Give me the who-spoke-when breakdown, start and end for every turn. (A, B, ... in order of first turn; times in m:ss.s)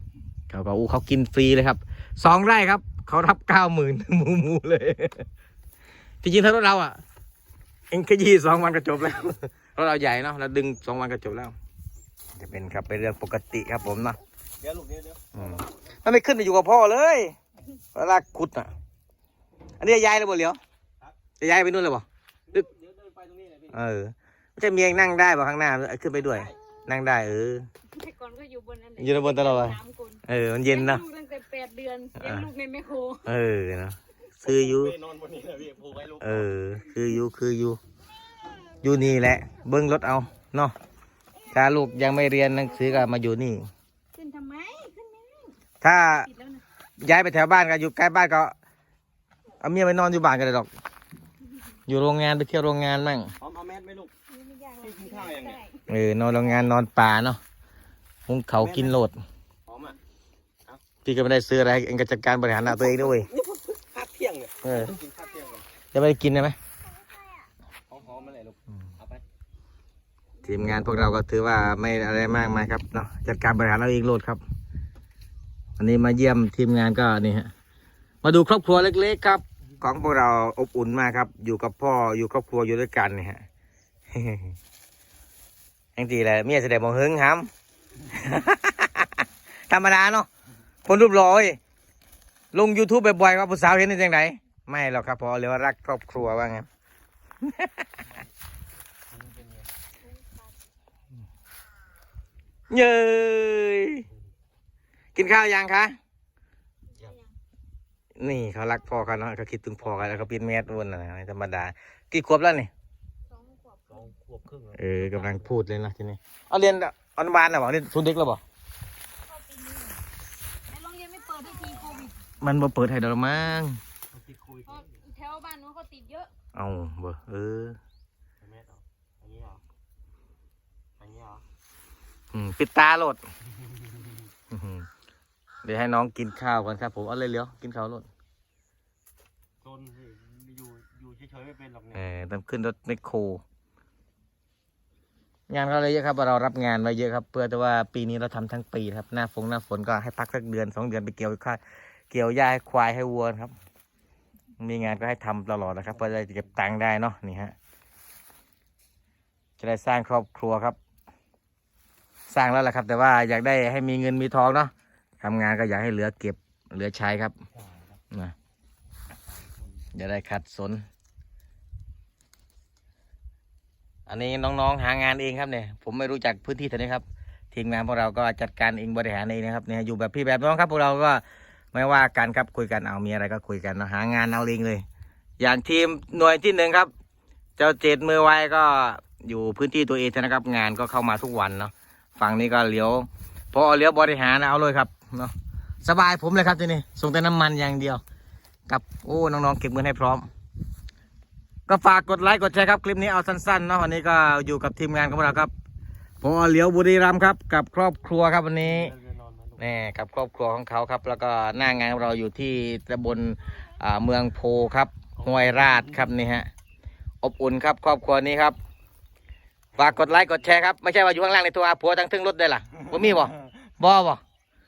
0:00.5-0:05.2 A
0:06.2-0:07.0 A
0:07.9-0:11.5 A
0:12.4-0:14.2 A
0:14.6-0:15.3 B
0:15.3-0:17.3 A
0:17.9-0:18.7 A
0:19.8-0:20.6 A
0:21.4-0:22.6 A
0:22.6-0:23.7 B
0:23.7-0:27.7 A
0:27.9-0:33.2 C
0:29.0-0:31.0 A
0:32.2-0:32.5 A
0:33.2-0:35.0 A
0:34.7-0:36.2 B
0:36.2-0:37.8 A
0:38.8-0:40.7 A
0:41.5-0:43.7 A
0:44.1-0:45.5 C
0:45.8-0:46.3 A
0:46.3-0:46.6 C
0:47.0-0:48.5 A
0:49.6-0:50.7 A
0:51.9-0:53.3 A
0:53.4-0:54.1 B
0:54.3-0:55.8 C
0:54.8-0:55.6 B
0:55.9-0:57.4 A
0:58.3-0:59.2 A
0:59.7-1:00.0 B
1:01.0-1:03.3 A
1:03.3-1:05.6 B
1:04.6-1:05.0 A
1:05.9-1:06.6 A
1:07.9-1:09.2 B
1:10.4-1:14.4 A
1:15.8-1:17.5 A
1:18.2-1:23.4 A
1:24.1-1:24.5 A
1:26.0-1:27.5 A
1:28.0-1:30.3 A
1:30.8-1:31.6 A
1:32.5-1:36.7 A
1:37.4-1:37.8 A
1:39.1-1:39.7 B
1:40.1-1:40.4 C
1:42.7-1:44.0 A
1:45.1-1:46.0 A
1:48.2-1:52.7 A
1:53.3-1:54.0 C
1:53.9-1:54.7 B
1:54.7-1:58.4 A
1:59.3-2:00.0 C
2:00.7-2:02.2 C
2:02.4-2:03.8 A
2:04.1-2:04.8 B
2:04.7-2:06.3 C
2:06.5-2:07.8 A
2:08.4-2:09.6 B
2:11.0-2:11.4 B
2:12.3-2:13.2 A
2:14.5-2:14.8 A
2:15.6-2:18.1 A
2:19.6-2:22.0 B
2:21.9-2:23.4 A
2:25.5-2:33.5 A
2:34.6-2:37.5 A
2:39.6-2:40.8 A
2:42.3-2:47.4 A
2:49.9-2:50.8 A
2:54.1-3:04.8 A
3:05.4-3:06.9 A
3:07.6-3:18.0 A
3:18.7-3:20.3 A
3:21.7-3:25.5 A
3:26.2-3:28.9 A
3:28.8-3:29.6 B
3:29.6-3:36.5 A
3:37.2-3:38.6 A
3:39.8-3:44.2 A